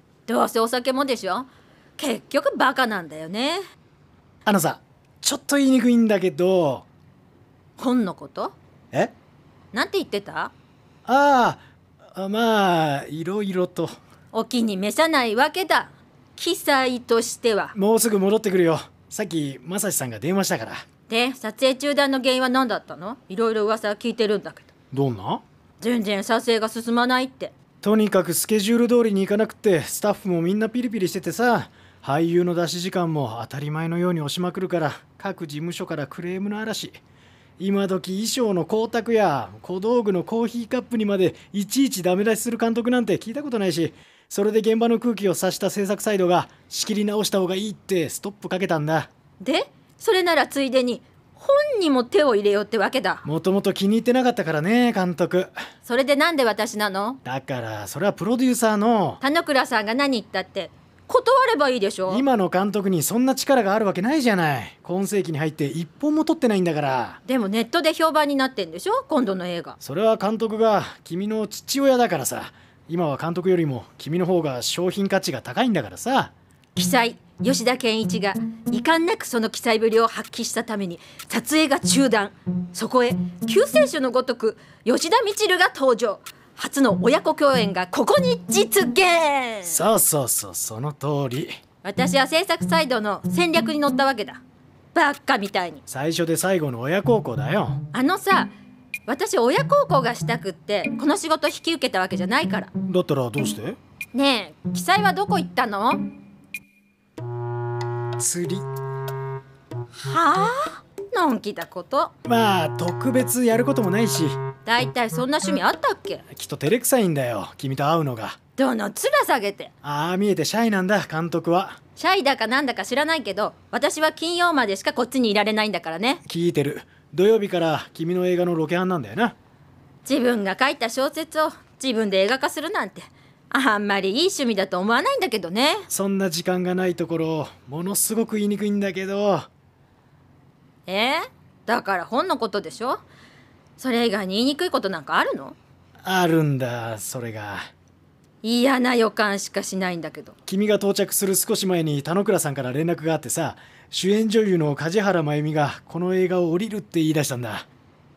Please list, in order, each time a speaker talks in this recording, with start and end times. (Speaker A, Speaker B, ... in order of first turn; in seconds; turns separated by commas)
Speaker A: 0.3-3.6, Speaker B: 4.5-6.9, Speaker A: 7.8-8.5, Speaker A: 9.7-10.5, Speaker B: 11.1-11.6, Speaker B: 12.1-14.0, Speaker A: 14.3-17.8, Speaker B: 17.8-20.8, Speaker A: 21.1-24.7, Speaker B: 24.9-25.4, Speaker A: 25.8-27.5, Speaker B: 27.8-37.0, Speaker B: 37.6-49.1, Speaker A: 49.4-53.2, Speaker B: 53.2-55.5, Speaker A: 55.9-57.2, Speaker B: 57.2-59.2, Speaker A: 59.2-62.2, Speaker B: 62.1-67.2, Speaker A: 67.3-69.8, Speaker B: 69.8-76.3, Speaker A: 76.8-89.8, Speaker B: 89.7-91.6, Speaker A: 91.8-94.4, Speaker A: 95.0-95.8, Speaker B: 95.9-97.8, Speaker A: 97.9-98.5, Speaker A: 99.1-102.7, Speaker B: 102.9-103.8, Speaker A: 104.1-106.0, Speaker B: 108.2-108.7, Speaker A: 110.0-112.1, Speaker B: 112.3-114.4, Speaker A: 114.7-116.2, Speaker B: 116.3-118.4, Speaker A: 118.6-119.7, Speaker B: 119.8-121.8, Speaker A: 122.0-126.2, Speaker B: 126.2-129.4, Speaker A: 130.1-135.9, Speaker B: 135.9-139.5, Speaker A: 140.9-143.0, Speaker A: 143.8-145.6, Speaker B: 146.0-147.7, Speaker A: 148.4-150.3, Speaker B: 150.5-157.7